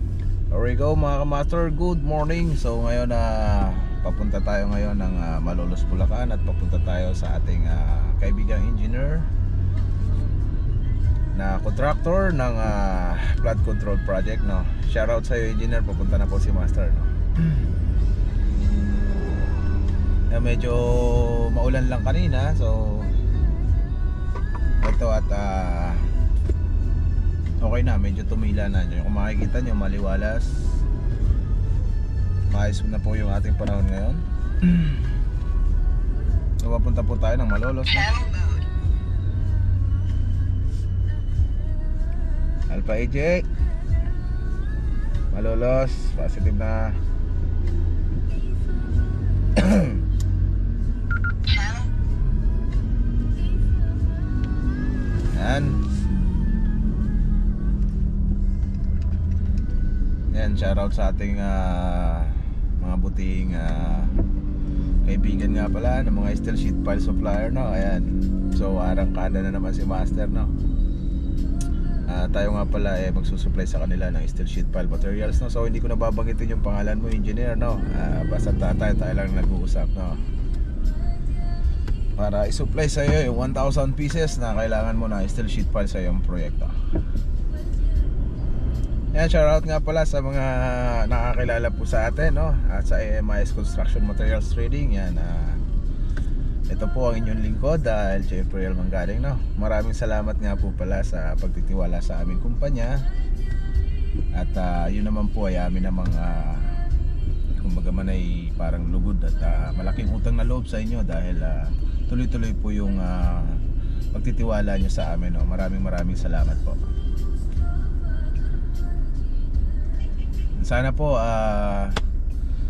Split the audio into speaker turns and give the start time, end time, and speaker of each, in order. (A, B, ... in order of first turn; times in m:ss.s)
0:00.5-0:09.3 A
0:11.4-0:17.6 A
0:20.3-0:23.1 A
0:24.8-0:26.1 A
0:27.6-0:30.7 A
0:32.5-0:35.1 A
0:36.6-0:38.4 A
0:42.7-0:43.4 A
0:45.3-0:47.0 A
0:49.6-0:50.0 A
0:55.3-0:55.8 A
1:00.3-1:04.2 A
1:05.0-1:10.5 A
1:12.1-1:20.2 A
1:22.2-1:26.7 A
1:29.1-1:35.6 A
1:36.7-1:43.1 A
1:44.4-1:46.8 A
1:47.5-1:53.6 A
1:54.1-1:56.8 A
2:00.6-2:02.0 A